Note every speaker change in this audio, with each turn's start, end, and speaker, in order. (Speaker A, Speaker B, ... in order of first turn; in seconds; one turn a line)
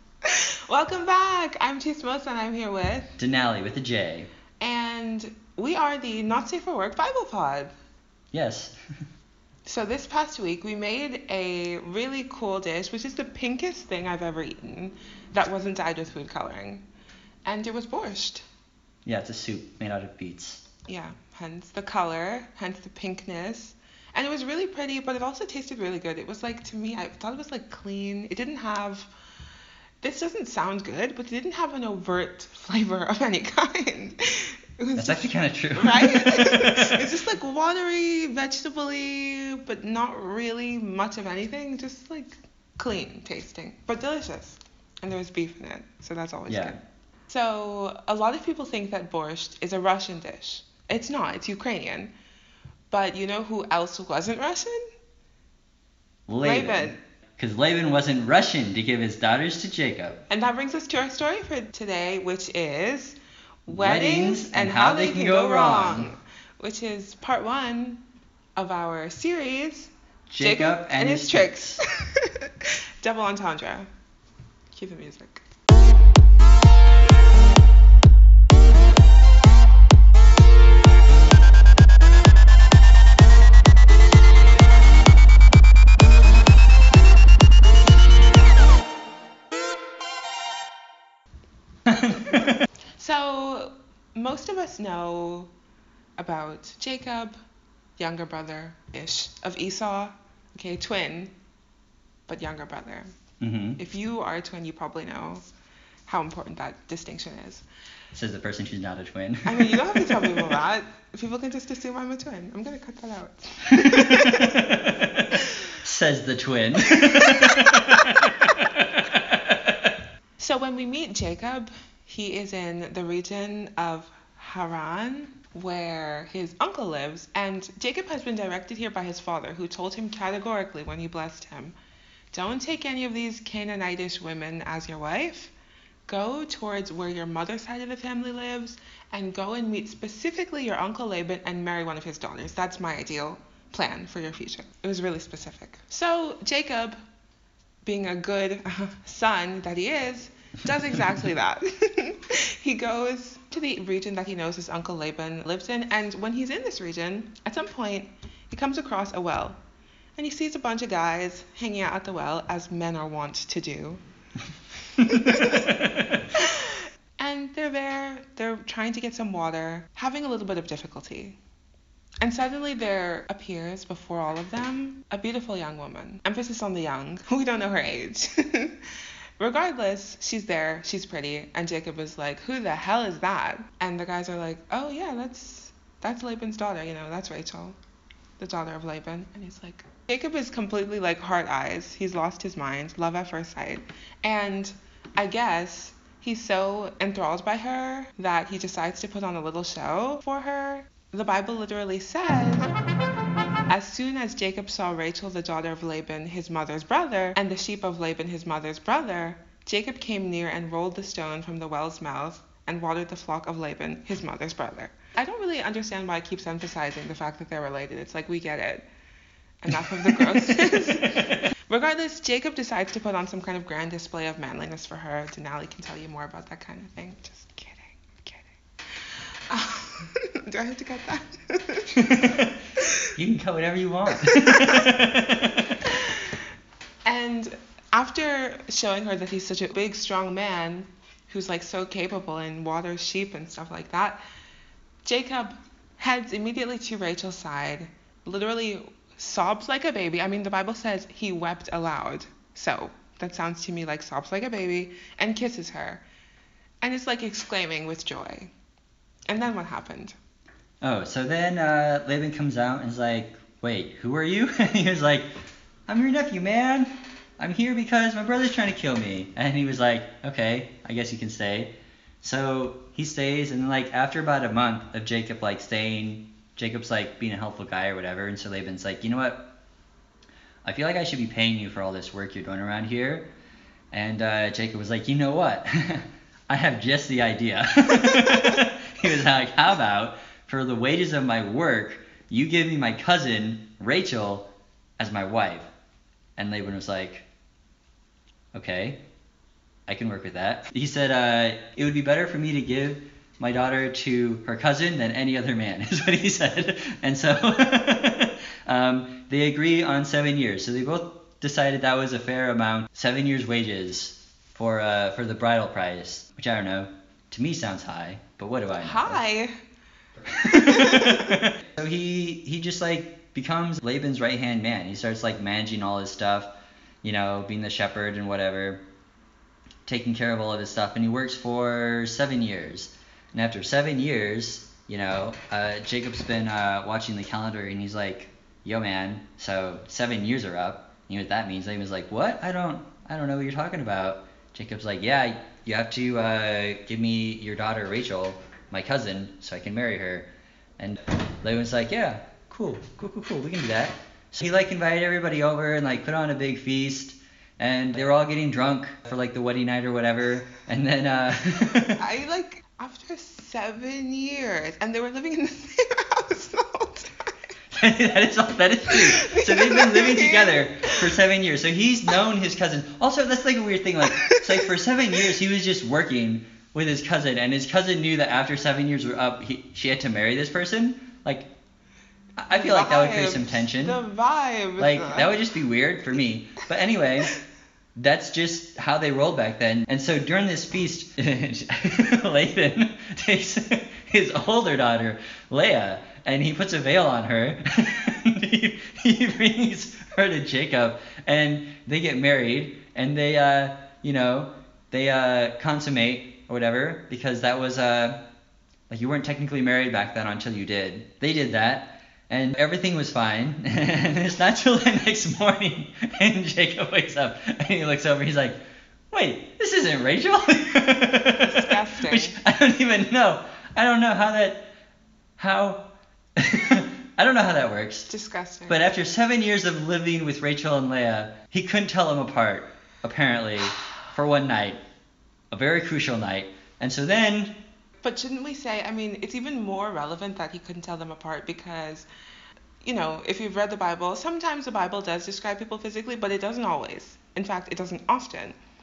Speaker A: 0.2-3.1
Speaker B: 3.2-4.3
Speaker A: 4.6-7.7
Speaker B: 8.3-8.8
Speaker A: 9.7-16.8
Speaker A: 17.4-18.4
Speaker B: 19.0-20.6
Speaker A: 20.9-29.1
Speaker A: 30.0-46.7
Speaker B: 35.0-37.0
Speaker B: 46.5-46.8
Speaker A: 47.3-52.1
Speaker A: 52.9-54.8
Speaker B: 56.3-60.2
Speaker A: 56.4-57.0
Speaker A: 60.3-68.0
Speaker B: 63.7-66.1
Speaker A: 68.5-73.9
Speaker B: 70.3-71.8
Speaker A: 74.7-75.4
Speaker A: 93.0-95.5
Speaker A: 96.2-97.3
Speaker A: 98.0-101.3
Speaker A: 102.3-103.2
Speaker B: 103.4-103.8
Speaker A: 103.8-105.4
Speaker A: 106.1-107.6
Speaker B: 108.1-110.6
Speaker A: 109.4-114.6
Speaker B: 113.9-119.9
Speaker A: 117.0-118.0
Speaker A: 120.4-131.7
Speaker A: 132.3-135.5
Speaker A: 136.1-146.9
Speaker A: 147.8-159.6
Speaker A: 160.2-164.0
Speaker A: 164.9-171.4
Speaker A: 172.2-178.8
Speaker A: 179.4-187.8
Speaker A: 188.4-202.7
Speaker A: 203.7-218.8
Speaker A: 219.6-232.9
Speaker B: 219.7-221.3
Speaker B: 231.9-232.5
Speaker B: 233.2-235.7
Speaker A: 234.2-234.9
Speaker A: 235.9-236.3
Speaker A: 237.0-244.2
Speaker A: 245.0-256.0
Speaker A: 256.8-258.5
Speaker A: 259.3-260.1
Speaker B: 260.8-265.3
Speaker B: 265.9-279.5
Speaker B: 280.6-283.3
Speaker B: 283.9-294.5
Speaker B: 295.0-295.7
Speaker B: 296.4-297.2
Speaker B: 298.5-299.0
Speaker B: 299.9-319.2
Speaker A: 318.8-319.5
Speaker B: 320.3-326.5
Speaker A: 320.4-321.3
Speaker B: 327.0-328.8
Speaker B: 329.9-362.0
Speaker A: 361.9-367.3
Speaker B: 367.7-381.5
Speaker A: 368.9-371.0
Speaker A: 374.1-374.4
Speaker B: 382.4-384.0
Speaker A: 382.5-385.3
Speaker B: 384.8-387.3
Speaker B: 387.9-408.2
Speaker B: 408.9-418.6
Speaker B: 419.1-424.7
Speaker A: 421.4-422.4
Speaker B: 425.4-425.9
Speaker B: 426.4-428.1
Speaker A: 428.1-428.8
Speaker B: 428.7-434.8
Speaker B: 435.5-437.6
Speaker A: 438.0-442.1
Speaker A: 442.8-448.6